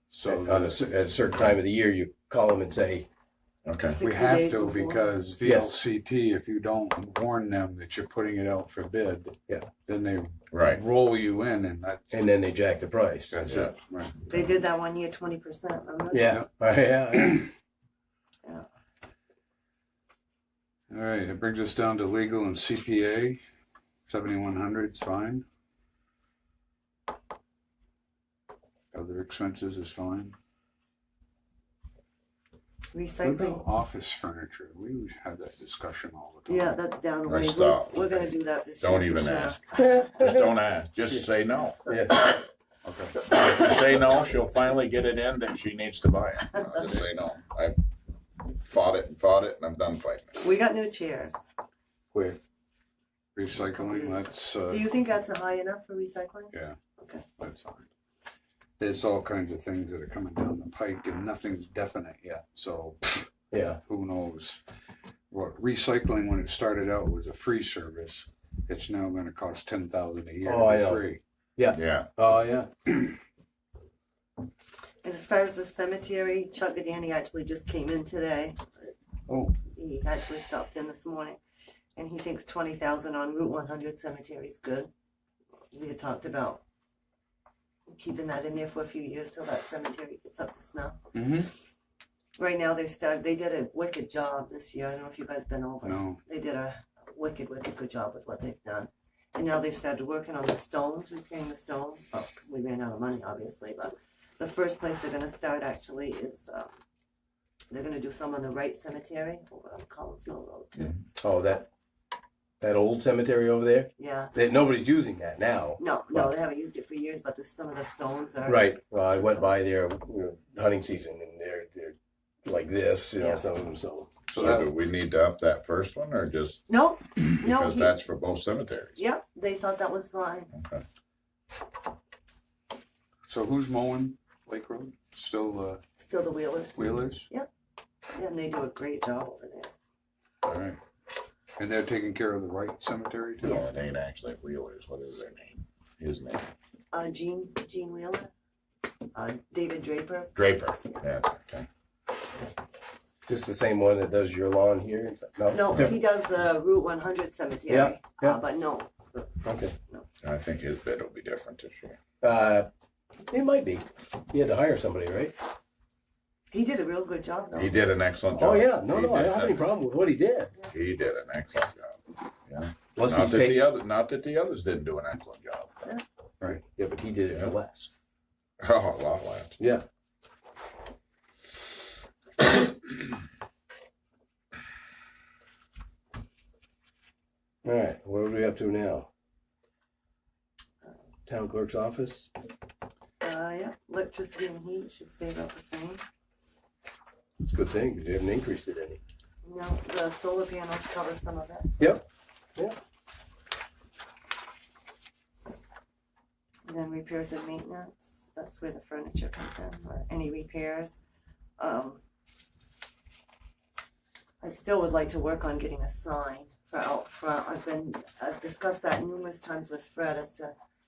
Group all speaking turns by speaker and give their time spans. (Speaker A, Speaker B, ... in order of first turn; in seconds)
Speaker A: 0.1-0.8, 3.9-12.2, 13.3-14.2, 20.9-23.4, 24.1-25.4, 28.9-30.4, 33.2-36.8, 42.8-43.3, 52.1-52.4, 53.4-54.9, 57.4-57.9, 58.8-63.3, 63.8-64.6, 65.3-71.2, 79.3-79.6, 91.1-91.5, 95.8-96.2, 124.3-124.7, 133.3-135.8, 136.8-137.3, 140.4-140.8, 141.6-143.7
Speaker B: 0.2-3.1, 5.4-5.8, 12.1-13.7, 16.1-17.5, 39.8-40.5, 41.9-42.3, 63.5-63.8, 70.4-71.0, 71.6-72.7, 111.2-111.7, 112.6-116.3, 118.5-124.6, 153.3-156.0, 157.7-158.4, 159.4-159.7, 162.2-162.7, 163.3-165.3, 168.4-170.7, 172.9-173.6, 176.5-177.9, 179.6-179.8, 187.6-189.1, 191.3-192.3, 197.4-199.0, 201.8-202.0
Speaker C: 3.6-4.0, 10.5-10.8, 37.2-38.2, 38.8-41.9, 43.2-47.8, 48.4-50.4, 71.7-72.1, 124.3-126.7, 127.2-129.0, 130.5-130.8, 143.4-146.5, 150.3-151.7, 160.2-162.0, 167.6-169.7, 170.7-175.9, 178.6-179.6
Speaker D: 3.9-5.1, 14.3-16.4, 32.9-33.6, 36.5-40.0, 50.4-51.5, 53.8-57.3, 75.0-78.7, 79.7-81.4, 82.0-84.9, 85.7-86.6, 87.9-91.0, 92.4-106.7, 107.7-111.0, 114.0-114.4, 115.8-119.5, 123.2-123.5, 126.7-128.0, 129.0-130.5, 136.0-137.5, 138.2-139.7, 143.4-143.8, 146.9-148.3, 149.1-150.3, 155.5-160.1, 166.5-167.9, 193.2-196.0, 199.4-202.0, 206.7-211.0, 211.6-212.0, 214.4-220.6